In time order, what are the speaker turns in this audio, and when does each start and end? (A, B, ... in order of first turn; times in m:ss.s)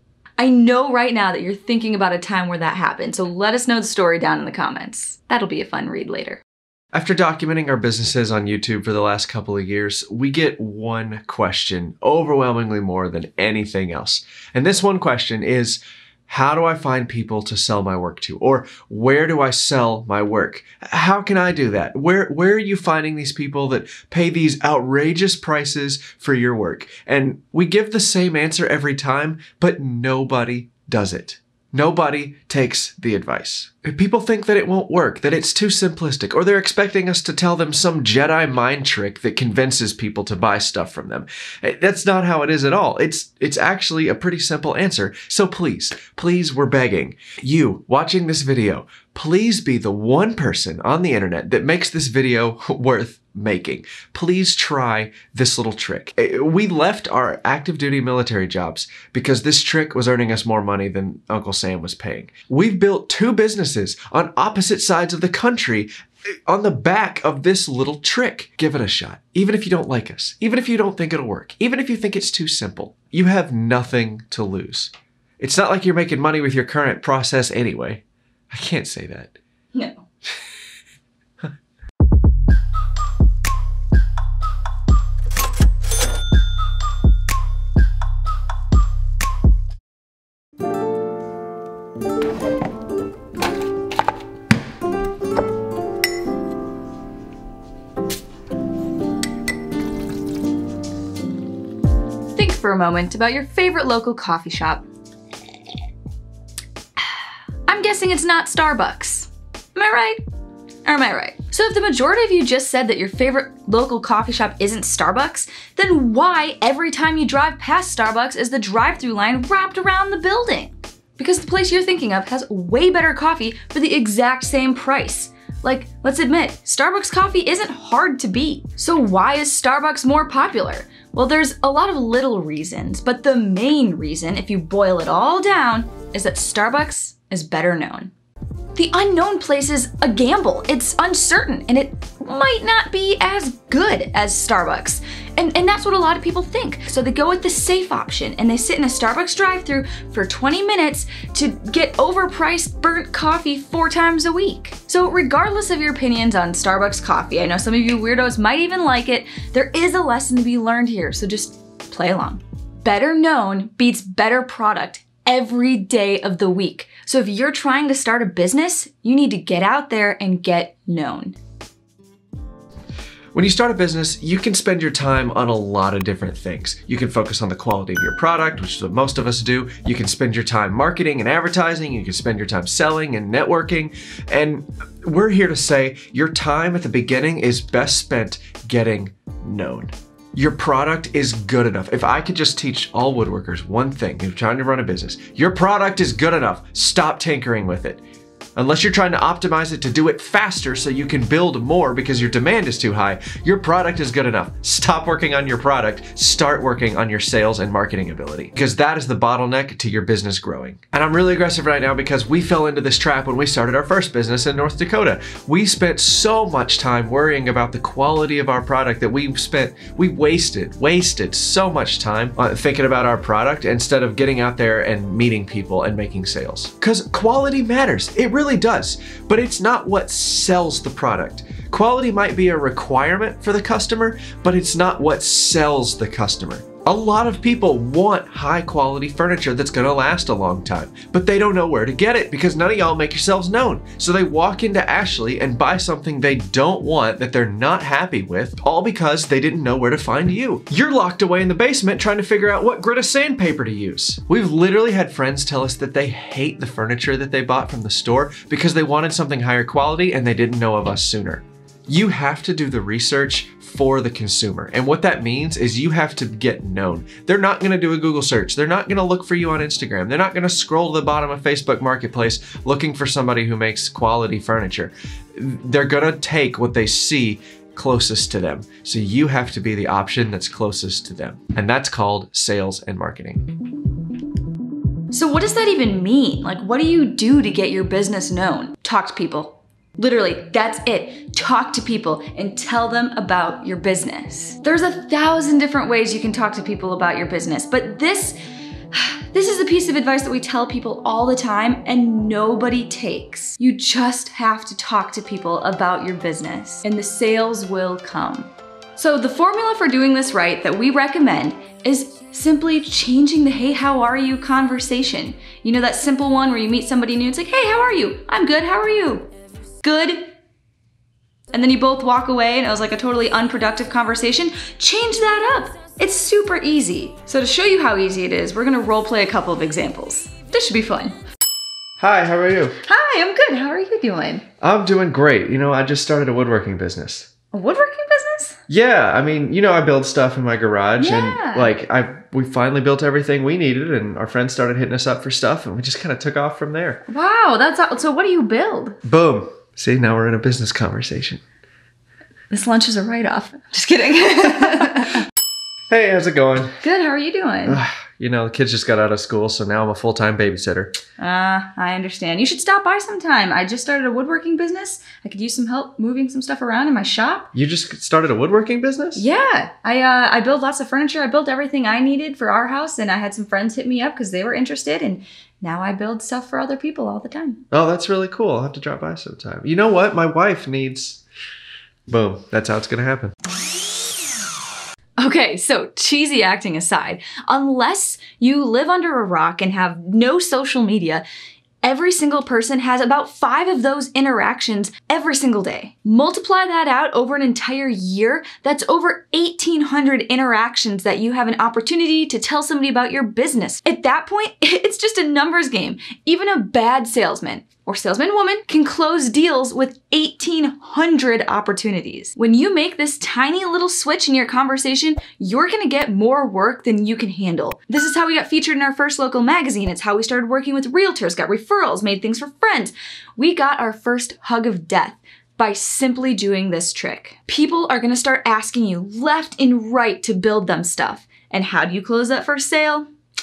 0:00.4-0:06.4 A
0:06.9-1:19.4 B
1:19.7-1:20.0 A
1:42.3-1:44.8 A
1:47.7-1:50.2 A
1:50.8-2:18.1 A
2:18.7-2:51.4 A
2:53.3-3:18.0 B
3:18.6-4:43.5 B
4:45.1-4:58.4 A
4:58.9-5:19.3 A
5:19.8-5:20.3 A
5:21.5-5:31.2 A
5:32.0-5:32.8 B
5:32.8-5:34.4 A
5:34.6-5:37.3 B
5:37.5-5:38.6 A
5:38.7-5:47.0 B
5:41.0-5:41.7 A
5:47.1-5:49.0 A
5:49.0-5:51.4 B
5:52.5-5:55.2 A
5:55.9-5:56.8 B
5:56.8-5:57.8 A
5:57.6-6:00.9 B
6:01.2-6:07.5 A
6:07.5-6:09.2 B
6:09.2-6:17.6 A
6:17.7-6:21.2 B
6:22.1-6:23.3 B
6:25.2-6:31.2 A
6:31.8-7:13.1 A